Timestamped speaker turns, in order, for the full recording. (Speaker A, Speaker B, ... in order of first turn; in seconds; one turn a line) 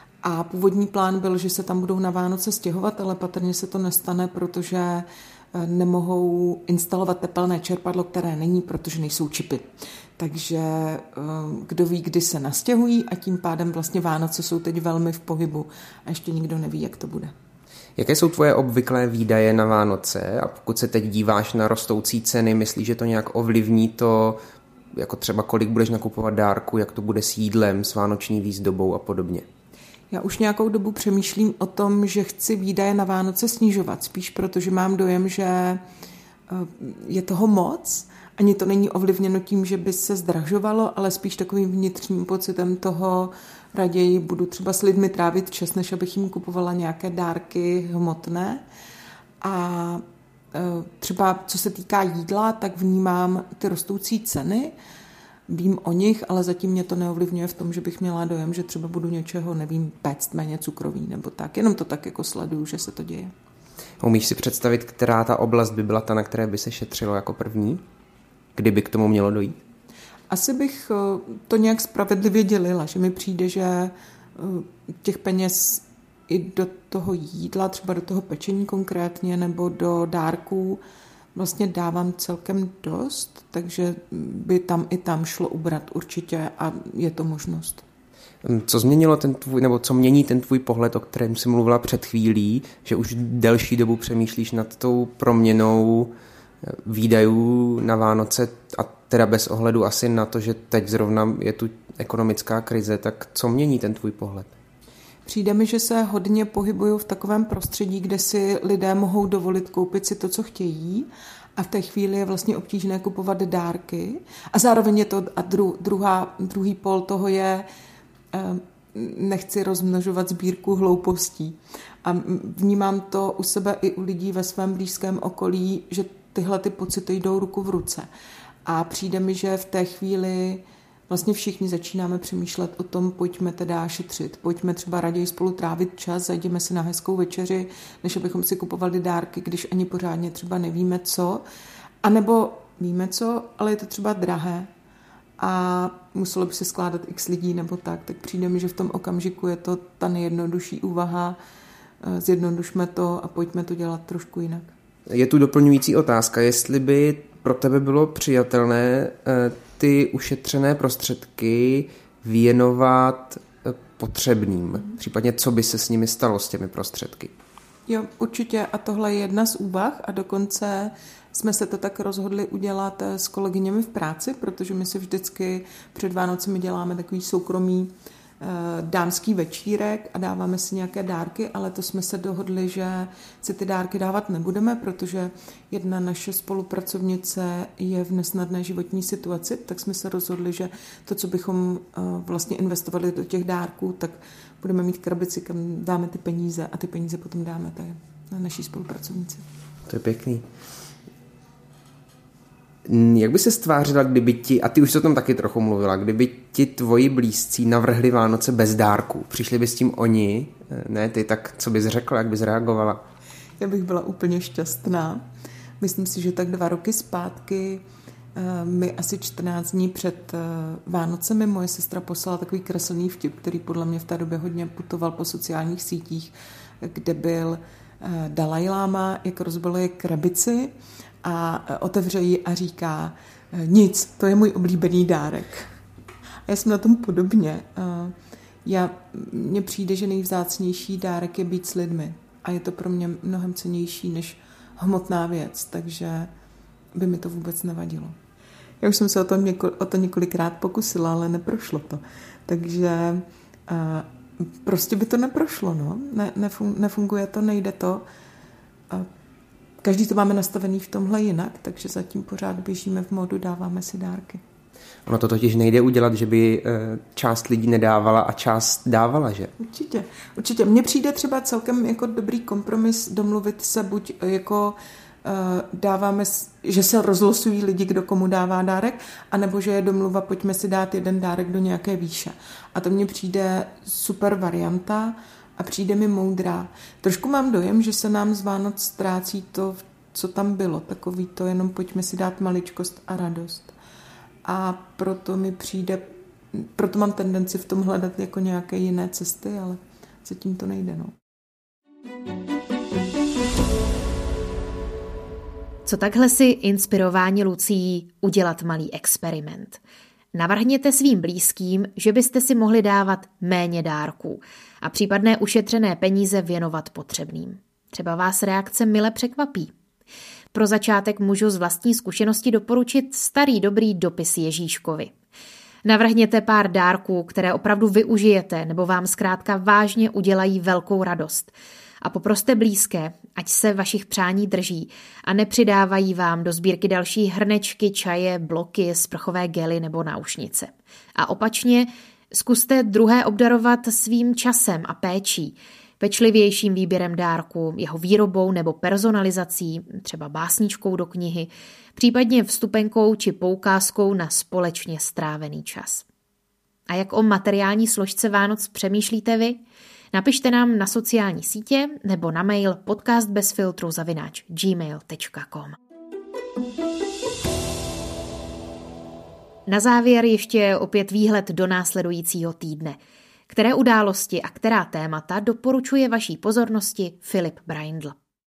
Speaker A: 0.2-17.3
Speaker B: 18.0-24.4
Speaker B: 24.9-29.5
Speaker A: 30.1-35.8
Speaker A: 36.5-48.6
Speaker A: 49.4-54.7
Speaker A: 55.5-63.3
Speaker B: 64.0-67.8
Speaker B: 68.5-69.6
Speaker A: 70.3-80.8
Speaker A: 81.3-87.8
Speaker B: 88.4-104.5
Speaker A: 105.2-117.7
Speaker A: 118.3-128.1
Speaker A: 128.7-141.4
Speaker A: 142.0-144.7
Speaker A: 145.4-151.4
Speaker A: 152.0-154.7
Speaker B: 155.1-167.3
Speaker A: 167.9-199.4
Speaker B: 199.9-200.4
Speaker B: 202.8-213.0
Speaker A: 213.6-215.2
Speaker A: 215.8-235.7
Speaker A: 236.5-246.3
Speaker A: 246.9-248.2
Speaker A: 248.8-258.0
Speaker A: 259.8-264.4
Speaker B: 265.1-269.5
Speaker A: 269.6-293.7
Speaker A: 294.4-301.1
Speaker C: 305.9-309.8
Speaker C: 310.3-319.7
Speaker C: 320.5-325.1
Speaker C: 325.8-356.0
Speaker C: 356.9-359.6
Speaker C: 360.1-365.8
Speaker C: 369.7-373.0
Speaker C: 373.5-378.1